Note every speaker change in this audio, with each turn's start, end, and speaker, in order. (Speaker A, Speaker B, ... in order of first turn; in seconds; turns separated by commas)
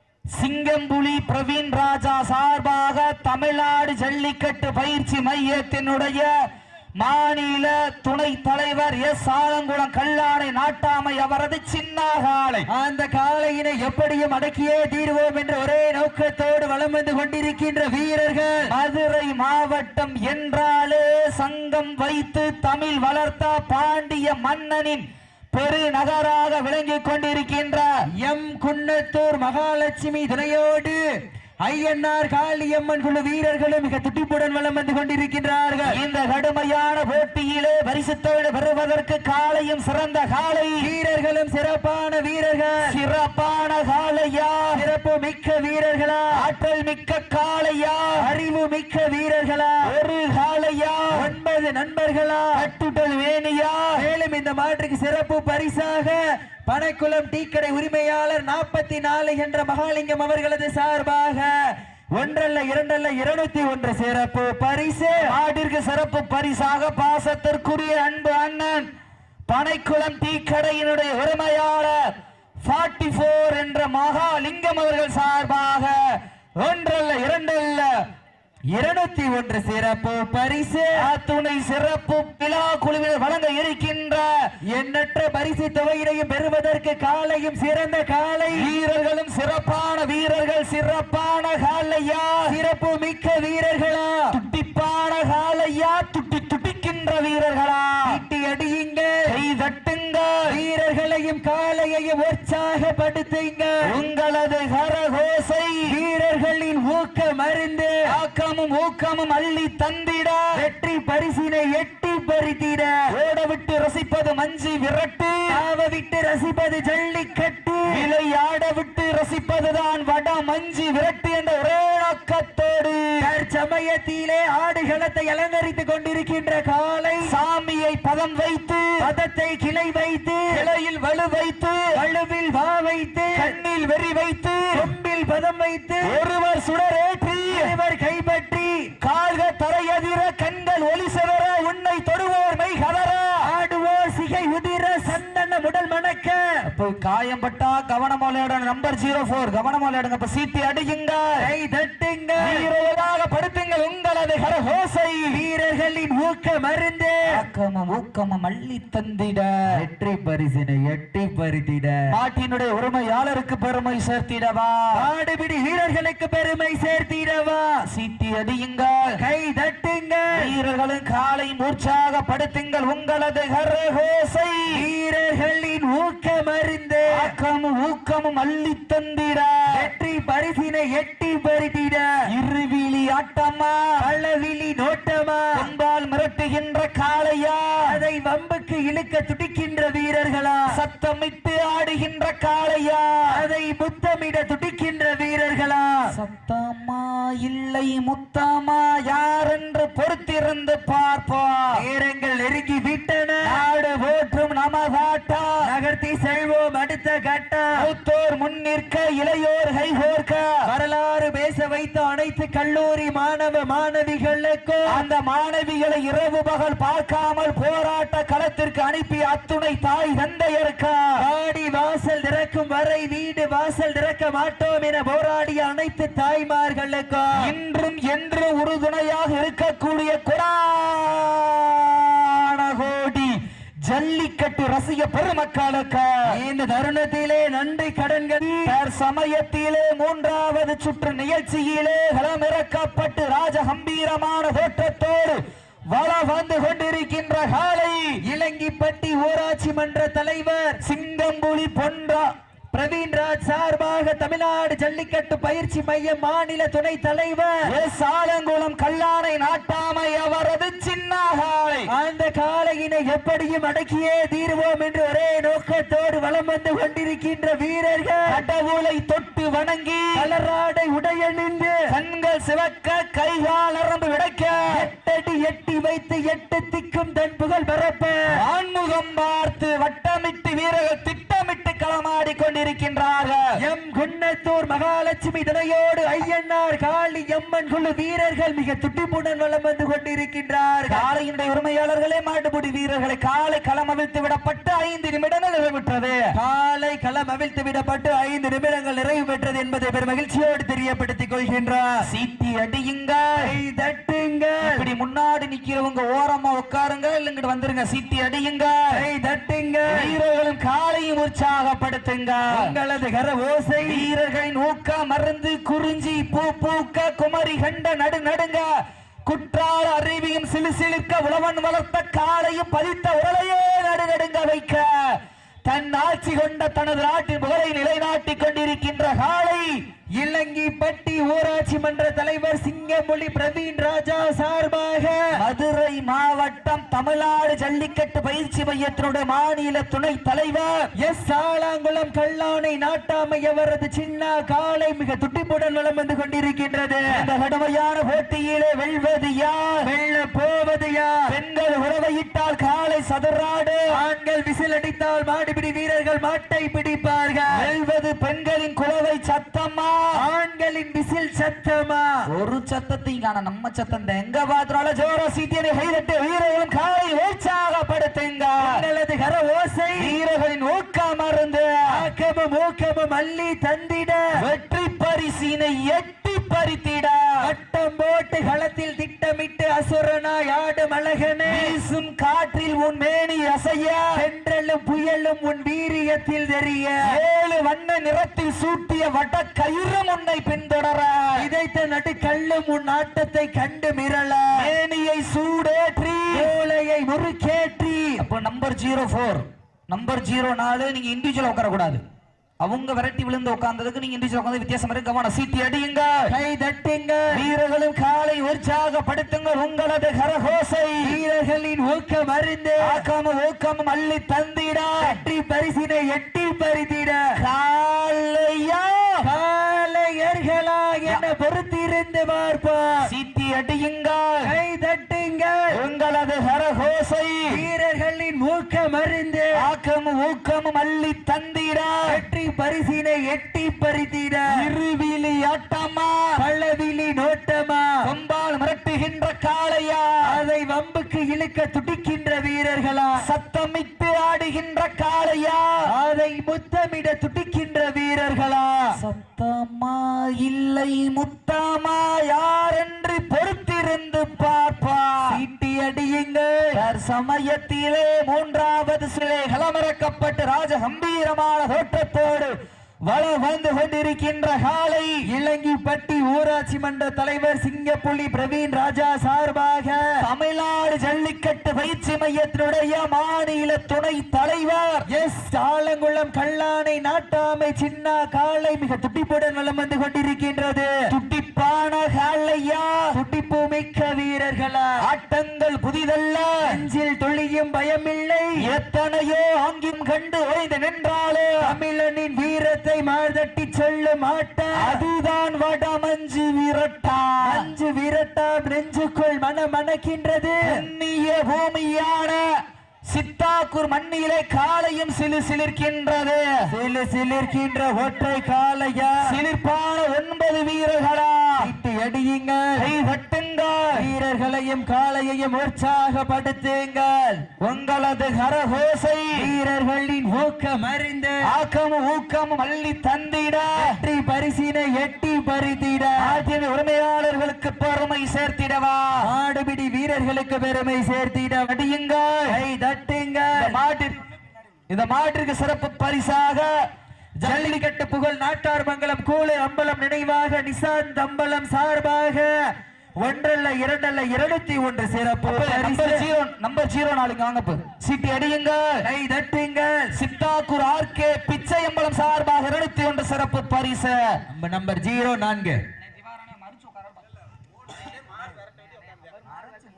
Speaker A: 0.3-6.3, Speaker A: 7.0-12.7, Speaker B: 12.7-18.7, Speaker A: 18.6-27.9, Speaker B: 28.2-31.0, Speaker B: 31.6-36.0, Speaker A: 35.9-40.9, Speaker B: 40.8-42.9, Speaker A: 42.8-44.8, Speaker B: 44.8-46.4, Speaker A: 46.3-48.2, Speaker B: 48.2-49.9, Speaker A: 49.8-51.2, Speaker B: 51.1-52.7, Speaker A: 52.5-53.9, Speaker B: 54.0-65.3, Speaker A: 65.2-68.9, Speaker A: 69.5-72.0, Speaker A: 72.6-76.0, Speaker A: 76.6-77.9, Speaker B: 78.7-81.1, Speaker A: 81.0-84.3, Speaker B: 84.7-88.7, Speaker A: 88.5-92.5, Speaker B: 92.5-94.3, Speaker A: 94.3-98.1, Speaker B: 98.1-99.3, Speaker A: 99.3-100.5, Speaker B: 100.5-103.8, Speaker A: 103.8-105.9, Speaker B: 105.9-108.0, Speaker A: 108.1-110.6, Speaker B: 110.5-113.0, Speaker A: 113.1-115.5, Speaker B: 115.5-118.1, Speaker A: 117.9-123.3, Speaker B: 123.2-127.3, Speaker A: 127.2-129.1, Speaker B: 129.0-130.6, Speaker A: 130.5-132.0, Speaker B: 131.9-133.6, Speaker A: 133.3-134.9, Speaker B: 134.7-136.2, Speaker A: 136.0-137.7, Speaker B: 137.5-138.9, Speaker A: 139.0-143.5, Speaker B: 143.4-146.7, Speaker A: 146.7-151.5, Speaker B: 151.4-152.7, Speaker A: 152.4-155.4, Speaker B: 155.3-157.2, Speaker A: 157.3-159.7, Speaker B: 159.7-162.0, Speaker A: 162.1-165.0, Speaker B: 164.9-167.8, Speaker A: 167.9-169.2, Speaker B: 169.2-170.5, Speaker A: 170.3-174.8, Speaker B: 174.7-177.3, Speaker A: 177.1-179.7, Speaker B: 179.7-182.1, Speaker A: 182.3-183.8, Speaker B: 184.0-185.6, Speaker A: 185.6-187.9, Speaker B: 187.9-190.7, Speaker A: 190.7-193.4, Speaker B: 193.3-196.1, Speaker A: 196.1-201.8, Speaker B: 201.7-203.6, Speaker A: 203.4-205.6, Speaker B: 205.6-207.9, Speaker A: 207.8-210.5, Speaker B: 210.7-215.0, Speaker A: 214.9-221.2, Speaker B: 221.2-227.4, Speaker A: 227.4-236.3, Speaker B: 236.3-238.7, Speaker A: 238.7-248.2, Speaker B: 248.2-250.8, Speaker A: 250.8-252.3, Speaker B: 252.7-257.7, Speaker A: 257.7-261.9, Speaker B: 261.9-268.4, Speaker A: 268.3-270.2, Speaker B: 270.1-271.8, Speaker A: 271.9-274.7, Speaker B: 274.7-278.2, Speaker A: 278.3-283.6, Speaker B: 283.6-291.1, Speaker A: 290.9-296.2, Speaker B: 296.4-301.9, Speaker A: 302.0-303.5, Speaker B: 303.4-304.9, Speaker A: 304.6-308.8, Speaker B: 308.9-310.1, Speaker A: 309.9-312.7, Speaker B: 312.5-314.1, Speaker A: 313.9-318.7, Speaker A: 319.3-329.8, Speaker B: 330.2-335.2, Speaker A: 335.4-340.9, Speaker B: 341.0-347.1, Speaker A: 347.1-349.9, Speaker B: 349.8-351.3, Speaker A: 351.3-353.9, Speaker B: 353.9-357.7, Speaker A: 357.5-360.0, Speaker B: 360.2-362.1, Speaker A: 362.3-368.8, Speaker B: 368.6-370.2, Speaker A: 370.0-371.9, Speaker B: 371.9-374.2, Speaker A: 374.4-377.4, Speaker B: 377.4-381.8, Speaker A: 381.5-384.2, Speaker B: 384.1-387.1, Speaker A: 387.0-391.5, Speaker B: 391.4-394.7, Speaker A: 394.6-396.5, Speaker B: 396.3-398.2, Speaker A: 398.2-402.0, Speaker A: 402.6-406.3, Speaker B: 406.3-407.4, Speaker A: 407.3-411.2, Speaker B: 411.0-413.1, Speaker A: 412.8-415.2, Speaker B: 415.0-417.2, Speaker A: 417.4-419.3, Speaker B: 419.2-423.1, Speaker A: 423.1-424.5, Speaker B: 424.4-425.8, Speaker A: 425.7-427.6, Speaker B: 427.5-429.5, Speaker A: 429.6-432.1, Speaker B: 432.1-434.7, Speaker A: 434.5-436.4, Speaker B: 436.4-437.9, Speaker A: 438.0-440.2, Speaker B: 440.3-443.2, Speaker A: 443.2-445.9, Speaker B: 445.9-449.0, Speaker A: 449.0-455.4, Speaker B: 455.2-456.8, Speaker A: 456.7-465.2, Speaker B: 465.2-470.2, Speaker A: 470.2-475.1, Speaker B: 475.1-480.9, Speaker A: 481.1-483.0, Speaker B: 483.1-485.0, Speaker A: 485.0-486.8, Speaker B: 486.6-488.6, Speaker A: 488.6-491.7, Speaker B: 491.6-495.1, Speaker A: 494.8-497.7, Speaker B: 497.4-500.7, Speaker A: 500.6-502.4, Speaker A: 503.1-506.6, Speaker B: 506.7-509.4, Speaker A: 509.2-511.7, Speaker B: 511.6-512.9, Speaker A: 512.8-514.1, Speaker B: 514.0-517.4, Speaker A: 517.6-519.5, Speaker B: 519.4-521.5, Speaker A: 521.4-523.9, Speaker B: 523.8-526.4, Speaker A: 526.2-529.3, Speaker B: 529.2-531.7, Speaker A: 531.7-532.6, Speaker B: 532.5-533.8, Speaker A: 533.5-534.2, Speaker A: 534.9-536.7, Speaker B: 537.4-542.5, Speaker A: 537.5-537.8, Speaker B: 543.2-546.3, Speaker A: 545.5-549.0, Speaker B: 549.0-550.1, Speaker A: 550.1-554.4, Speaker B: 554.5-555.8, Speaker A: 556.5-556.8